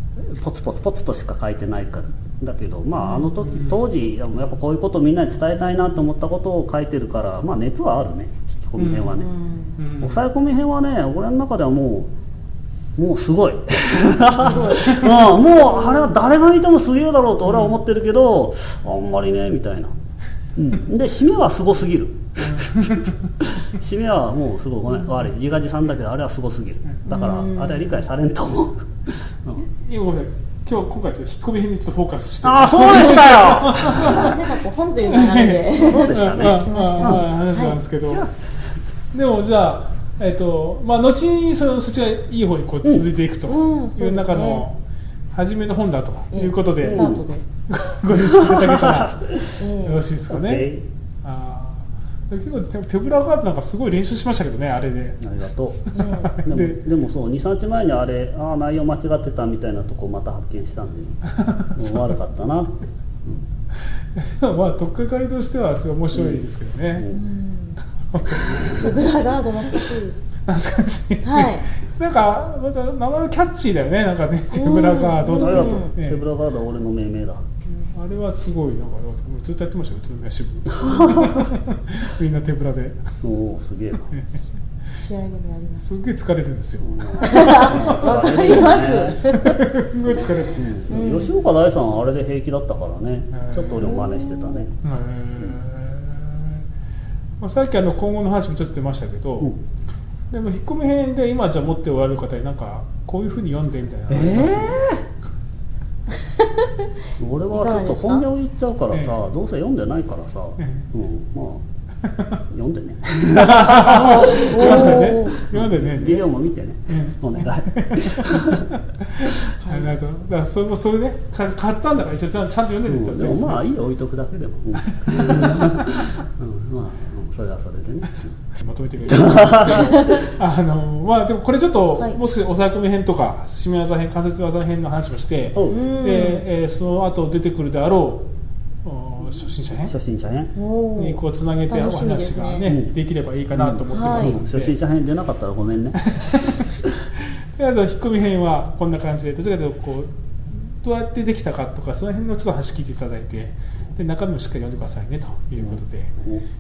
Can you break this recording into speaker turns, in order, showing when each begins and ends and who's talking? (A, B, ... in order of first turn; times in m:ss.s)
0:00.3-0:09.3 A
0:03.1-0:03.8 B
0:08.8-0:09.2 B
0:09.1-0:09.8 C
0:09.8-0:10.2 B
0:10.0-0:12.1 A
0:13.0-0:19.9 A
0:14.4-0:15.1 B
0:14.4-0:16.0 C
0:17.4-0:17.8 B
0:20.6-0:28.9 A
0:22.4-0:23.3 B
0:27.0-0:27.9 C
0:29.6-0:34.4 B
0:32.4-0:34.4 A
0:33.9-0:37.8 C
0:35.0-0:38.3 B
0:35.7-0:37.3 A
0:38.0-0:38.3 A
0:39.1-0:44.8 B
0:43.5-0:44.6 C
0:45.3-0:50.7 B
0:46.3-0:47.4 C
0:46.8-0:47.2 A
0:48.1-0:49.3 A
0:49.6-0:50.0 C
0:50.3-0:50.8 A
0:51.2-0:55.2 B
0:55.2-0:55.9 A
0:55.9-0:56.8 B
0:55.9-0:56.3 C
0:56.4-1:01.2 A
1:01.3-1:02.1 B
1:01.8-1:02.7 A
1:03.9-1:07.1 B
1:06.1-1:06.4 A
1:07.1-1:07.8 C
1:08.0-1:09.1 B
1:08.4-1:08.7 A
1:08.6-1:10.2 C
1:10.4-1:16.2 B
1:11.2-1:11.6 C
1:14.5-1:15.9 C
1:15.3-1:17.4 A
1:17.6-1:23.0 B
1:20.8-1:21.4 A
1:23.2-1:24.1 A
1:24.0-1:24.4 B
1:24.9-1:25.8 C
1:25.8-1:30.6 B
1:26.8-1:29.2 A
1:27.2-1:31.3 C
1:30.1-1:34.7 A
1:33.3-1:34.0 B
1:33.7-1:34.7 C
1:34.8-1:36.6 B
1:37.4-1:39.5 B
1:40.3-1:44.8 B
1:44.1-1:45.0 A
1:47.2-1:51.6 A
1:47.5-1:48.2 C
1:48.9-1:49.2 B
1:50.6-1:50.9 B
1:52.0-1:52.4 B
1:52.5-1:58.7 A
1:53.3-1:56.2 B
1:53.8-1:55.4 C
1:56.9-2:03.6 B
1:59.3-1:59.9 C
2:02.9-2:08.3 A
2:04.8-2:06.2 B
2:08.5-2:18.3 B
2:09.0-2:10.2 A
2:09.8-2:10.2 C
2:15.5-2:15.8 A
2:15.7-2:16.4 C
2:18.8-2:19.9 B
2:19.8-2:20.5 A
2:20.5-2:22.7 C
2:21.0-2:24.8 B
2:22.6-2:22.9 A
2:23.5-2:26.6 A
2:23.9-2:24.4 C
2:26.0-2:36.2 B
2:35.6-2:36.4 A